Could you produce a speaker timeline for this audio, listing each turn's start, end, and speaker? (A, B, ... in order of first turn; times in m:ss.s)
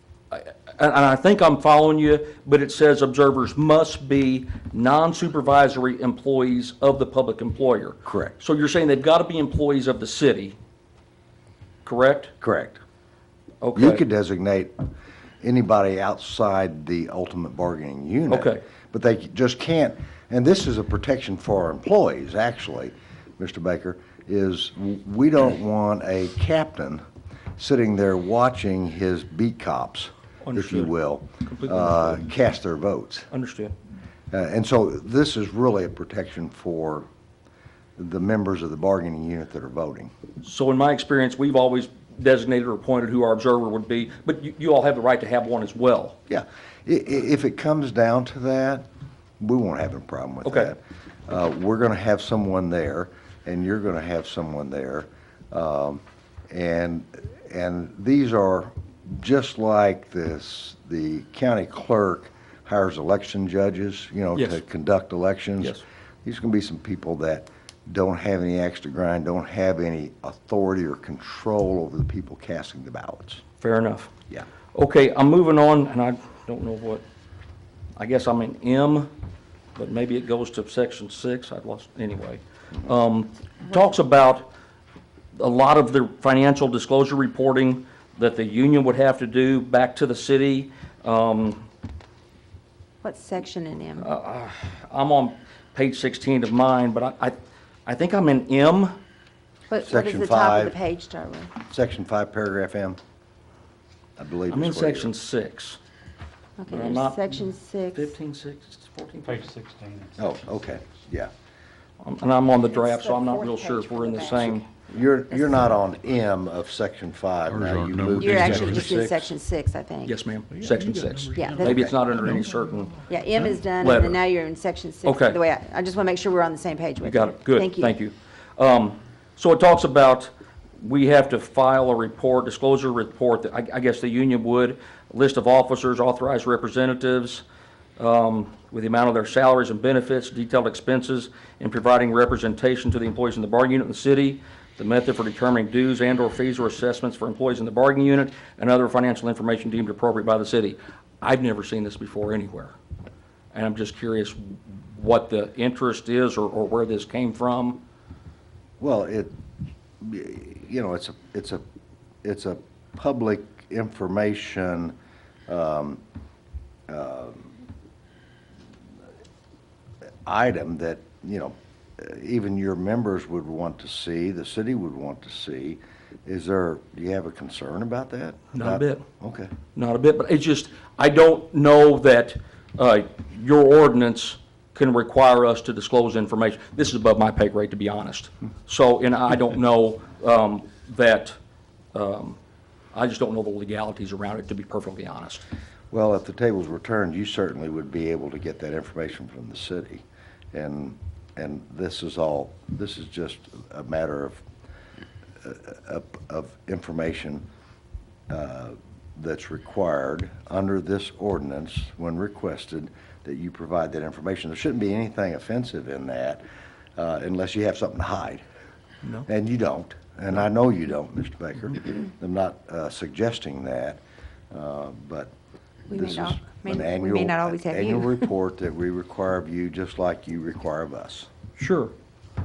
0:00.3-0:10.5 A
0:08.0-0:08.4 B
0:11.8-0:12.3 A
0:12.4-0:12.8 B
0:13.6-0:14.0 A
0:13.7-0:14.7 B
0:15.4-0:27.0 B
0:18.3-0:18.6 A
0:27.6-0:33.3 B
0:30.4-0:30.9 A
0:31.4-0:32.2 A
0:33.3-0:33.7 A
0:34.3-0:37.0 B
0:38.0-0:40.1 B
0:40.4-0:46.2 A
0:46.3-0:48.8 B
0:49.4-1:13.4 B
0:50.4-0:50.7 A
1:04.3-1:04.6 A
1:13.6-1:14.1 A
1:14.7-1:17.0 A
1:18.0-1:19.1 A
1:19.8-1:24.5 A
1:25.4-1:31.7 A
1:33.0-1:34.1 C
1:34.0-1:38.9 A
1:39.7-1:41.5 C
1:39.8-1:40.7 B
1:41.7-1:43.0 B
1:44.2-1:45.1 B
1:44.5-1:45.8 A
1:46.6-1:48.1 C
1:46.7-1:49.5 A
1:49.2-1:50.2 D
1:50.2-1:51.3 B
1:52.0-1:54.7 A
1:52.7-1:54.6 C
1:54.9-1:59.2 B
1:57.5-1:59.1 D
1:58.2-2:00.1 C
2:00.0-2:04.2 A
2:00.6-2:01.4 D
2:01.3-2:01.8 C
2:03.1-2:07.9 C
2:05.0-2:05.4 A
2:07.0-2:17.4 A
2:18.0-2:32.7 A
2:33.5-2:37.8 A
2:38.8-2:39.3 B
2:40.0-2:41.6 B
2:42.2-2:44.9 B
2:45.5-2:46.0 B
2:46.9-2:47.5 B
2:50.2-2:59.5 B
2:58.5-2:59.0 A
2:59.7-3:11.3 A
3:11.9-3:12.4 A
3:12.9-3:15.4 A
3:15.9-3:24.4 B
3:25.4-3:27.4 B
3:28.3-3:36.4 B
3:37.0-3:38.4 B
3:39.2-3:44.0 B
3:44.5-3:45.3 B
3:45.9-3:48.2 C
3:45.9-3:51.3 B
3:51.6-3:51.9 A